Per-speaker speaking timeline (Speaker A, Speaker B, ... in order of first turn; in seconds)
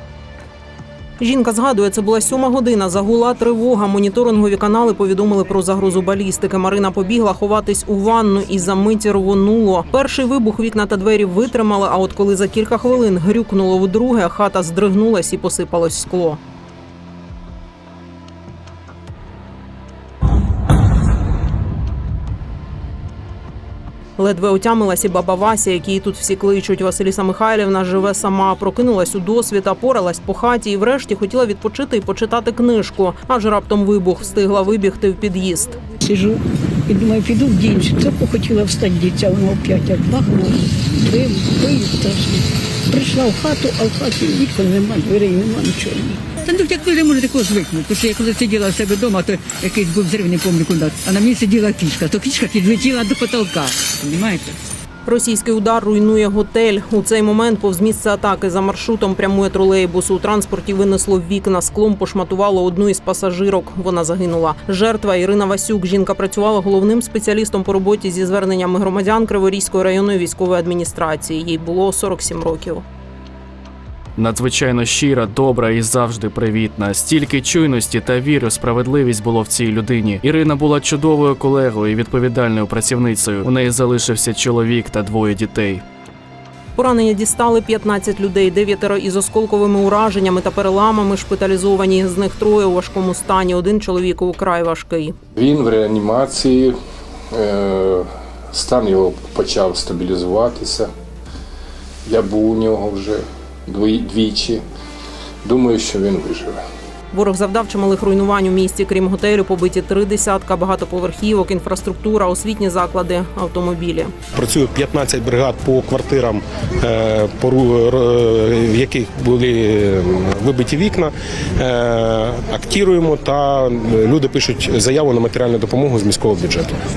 Speaker A: 1.2-16.4, 24.2-35.8, 55.0-72.8, 86.8-95.1, 107.1-114.1
Speaker B: 36.0-46.3
Speaker C: 46.4-54.6
Speaker D: 74.2-85.8
Speaker E: 95.3-96.8, 97.3-100.9, 102.0-104.6, 105.4-106.6
Speaker F: 114.3-126.7